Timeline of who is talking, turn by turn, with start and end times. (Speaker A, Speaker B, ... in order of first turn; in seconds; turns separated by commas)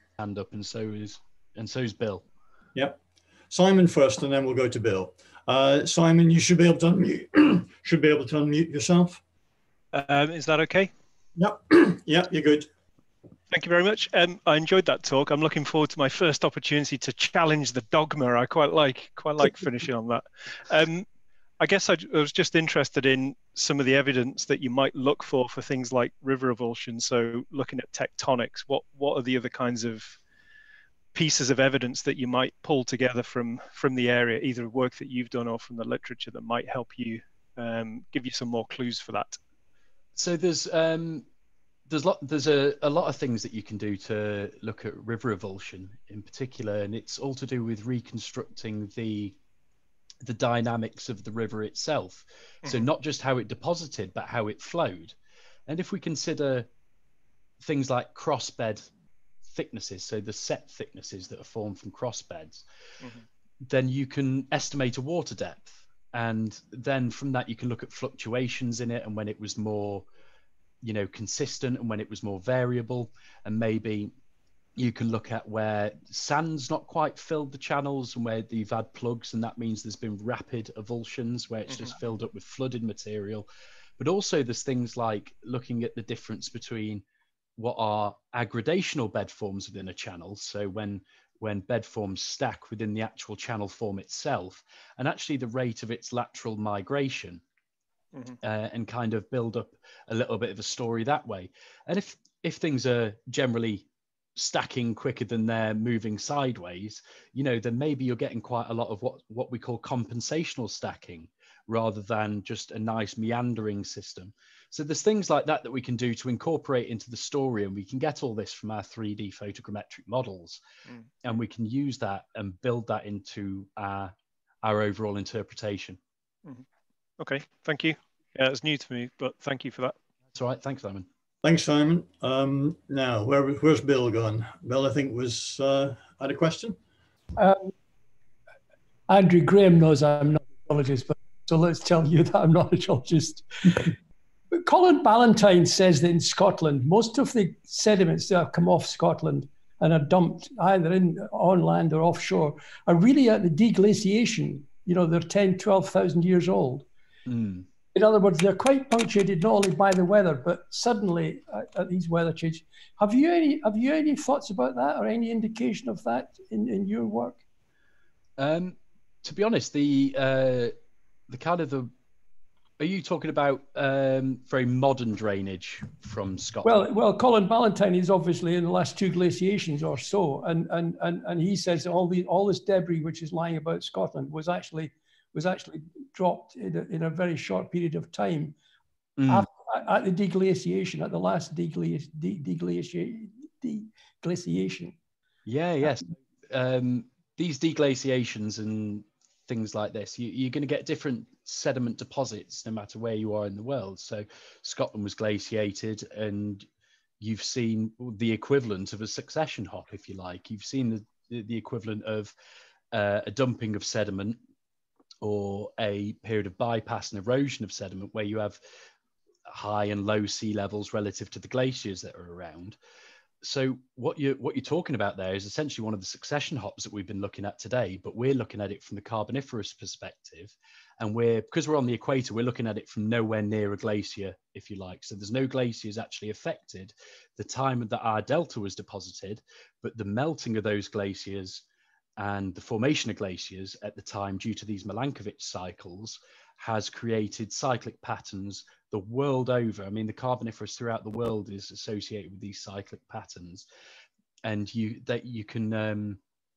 Speaker A: 0.2-2.2, Speaker B: 3.5-9.2, Speaker C: 9.9-10.9, Speaker B: 11.3-12.7, Speaker C: 13.5-21.1, Speaker C: 21.6-30.2, Speaker C: 31.1-39.4, Speaker A: 40.2-41.2, Speaker A: 41.9-49.4, Speaker A: 50.2-55.1, Speaker A: 55.7-56.7, Speaker A: 57.6-58.9, Speaker A: 59.5-62.6, Speaker A: 63.6-70.0, Speaker A: 70.8-74.1, Speaker A: 74.8-83.5, Speaker A: 84.0-87.0, Speaker A: 87.6-97.4, Speaker A: 98.4-120.6, Speaker A: 121.2-126.0, Speaker C: 127.2-129.9, Speaker A: 130.3-131.1, Speaker B: 131.4-136.8, Speaker D: 137.3-137.7, Speaker D: 139.1-143.9, Speaker D: 144.5-156.8, Speaker A: 157.3-157.7, Speaker D: 157.9-167.4, Speaker A: 168.4-170.7, Speaker A: 171.3-171.9, Speaker A: 172.8-176.8, Speaker D: 176.6-188.5, Speaker A: 189.2-189.4, Speaker D: 189.3-194.9, Speaker A: 195.4-206.7, Speaker A: 207.2-212.3, Speaker A: 212.9-214.4, Speaker A: 215.2-218.6, Speaker A: 219.5-222.8, Speaker A: 223.4-241.6, Speaker A: 242.2-253.7, Speaker A: 254.4-256.2